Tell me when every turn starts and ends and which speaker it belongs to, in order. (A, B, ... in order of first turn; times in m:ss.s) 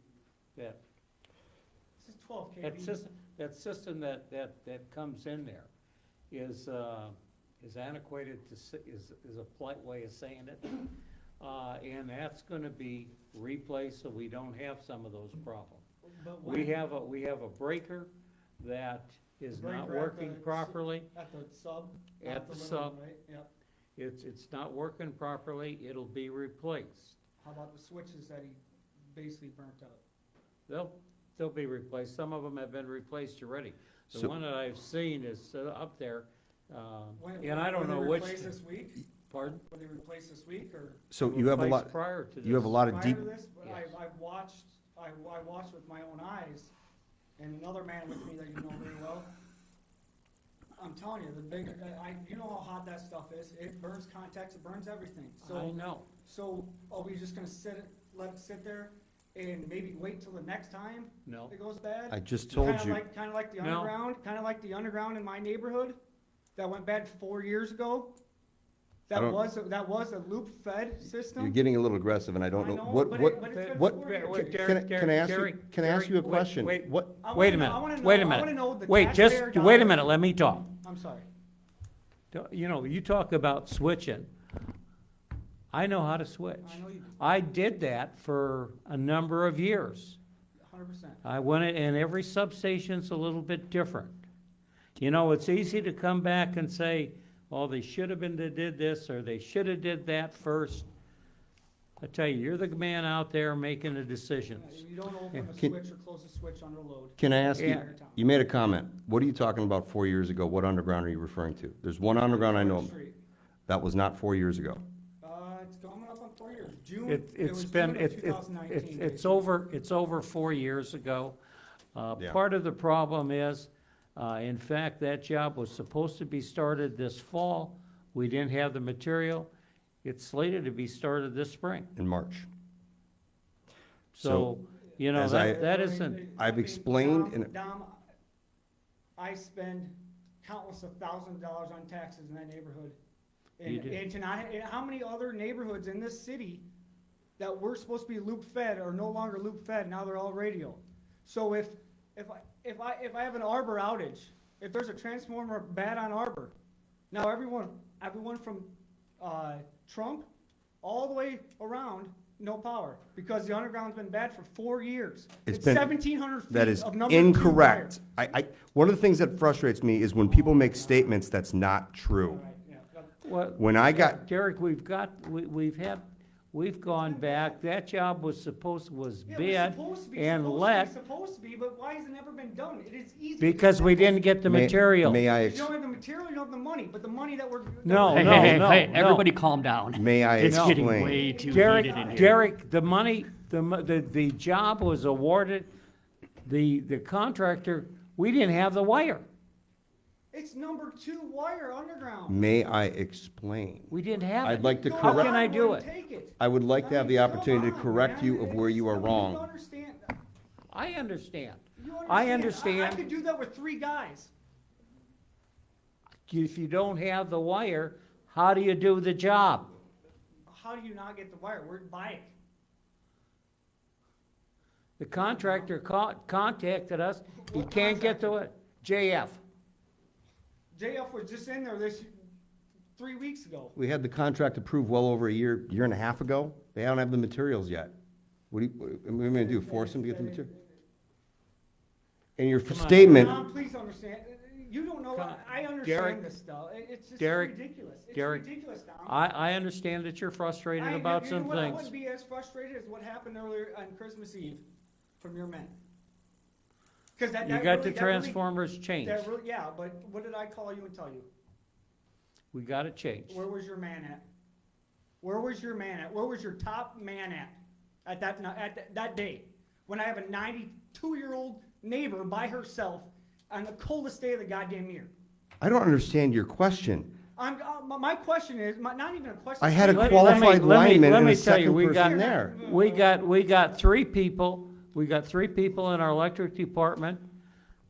0:00.6-0:00.8 A
0:02.0-0:03.0 B
0:02.6-0:05.7 A
0:06.3-0:15.8 A
0:16.1-0:16.8 B
0:16.4-0:21.1 A
0:19.5-0:23.5 B
0:22.2-0:23.0 A
0:24.0-0:27.2 A
0:27.4-0:28.6 B
0:29.1-0:30.0 B
0:30.7-0:38.6 A
0:37.2-0:39.1 B
0:39.2-0:39.6 A
0:39.6-0:41.1 B
0:41.1-0:43.2 C
0:41.2-0:42.8 A
0:42.8-0:46.7 B
0:43.6-0:43.9 A
0:47.4-0:49.3 B
0:50.8-1:06.0 B
0:55.4-0:56.1 A
1:01.3-1:01.5 A
1:02.1-1:03.0 C
1:03.6-1:04.0 A
1:06.6-1:08.2 B
1:09.1-1:11.6 B
1:09.1-1:09.4 C
1:11.3-1:17.1 C
1:12.5-1:14.7 B
1:13.3-1:20.7 A
1:17.2-1:20.1 B
1:20.8-1:21.3 B
1:22.3-1:24.3 A
1:25.7-1:30.2 A
1:26.6-1:27.2 B
1:30.6-1:31.2 B
1:31.2-1:34.2 A
1:35.0-1:40.9 A
1:42.0-1:45.5 A
1:44.5-1:48.4 B
1:47.2-1:52.9 C
1:47.6-1:47.9 A
1:52.3-1:53.2 B
1:53.7-1:54.8 C
1:55.2-1:59.6 B
1:57.1-2:01.4 A
2:02.0-2:09.5 A
2:10.0-2:11.9 A
2:12.0-2:12.5 C
2:14.1-2:16.3 A
2:14.2-2:14.5 C
2:15.1-2:15.7 C
2:15.3-2:18.0 B
2:16.4-2:17.5 C
2:19.2-2:23.0 B
2:23.6-2:26.6 B
2:23.6-2:24.0 A
2:27.4-2:36.6 B
2:37.1-2:40.3 B
2:40.8-2:48.1 B
2:45.5-2:46.0 C
2:46.5-2:52.4 C
2:50.2-2:51.2 B
2:52.3-2:53.2 B
2:53.2-3:00.9 A
2:53.6-2:54.2 C
2:56.8-2:57.6 B
2:59.3-3:04.3 B
3:03.4-3:05.2 A
3:04.4-3:05.7 C
3:05.4-3:08.7 B
3:07.8-3:09.3 A
3:08.0-3:12.4 D
3:09.9-3:11.3 C
3:10.4-3:15.7 A
3:10.9-3:12.3 B
3:16.4-3:19.3 A
3:20.3-3:22.4 B
3:22.3-3:25.4 C
3:23.9-3:25.9 A
3:24.5-3:30.1 B
3:26.4-3:29.4 C
3:30.7-3:33.0 A
3:31.8-3:34.3 B
3:36.3-3:39.7 A
3:40.5-3:42.4 B
3:45.0-3:49.4 A
3:45.1-3:45.7 B
3:47.3-3:48.4 B
3:50.7-3:52.2 B
3:53.0-3:53.8 B
3:53.8-3:57.9 C
3:58.5-4:00.5 C
3:59.3-4:00.7 B
4:02.4-4:03.4 C
4:02.7-4:03.4 A
4:03.1-4:09.2 B
4:05.1-4:06.2 A
4:07.2-4:07.6 A
4:08.1-4:08.4 A
4:09.1-4:11.9 A
4:10.8-4:14.6 B
4:15.2-4:15.8 B
4:17.2-4:18.4 B
4:17.4-4:19.3 A
4:19.0-4:21.3 B
4:22.5-4:23.5 A
4:23.3-4:24.2 B
4:25.2-4:35.1 B
4:35.6-4:37.1 C
4:37.4-4:40.7 B
4:39.6-4:42.6 C
4:39.8-4:47.3 A
4:41.9-4:43.2 B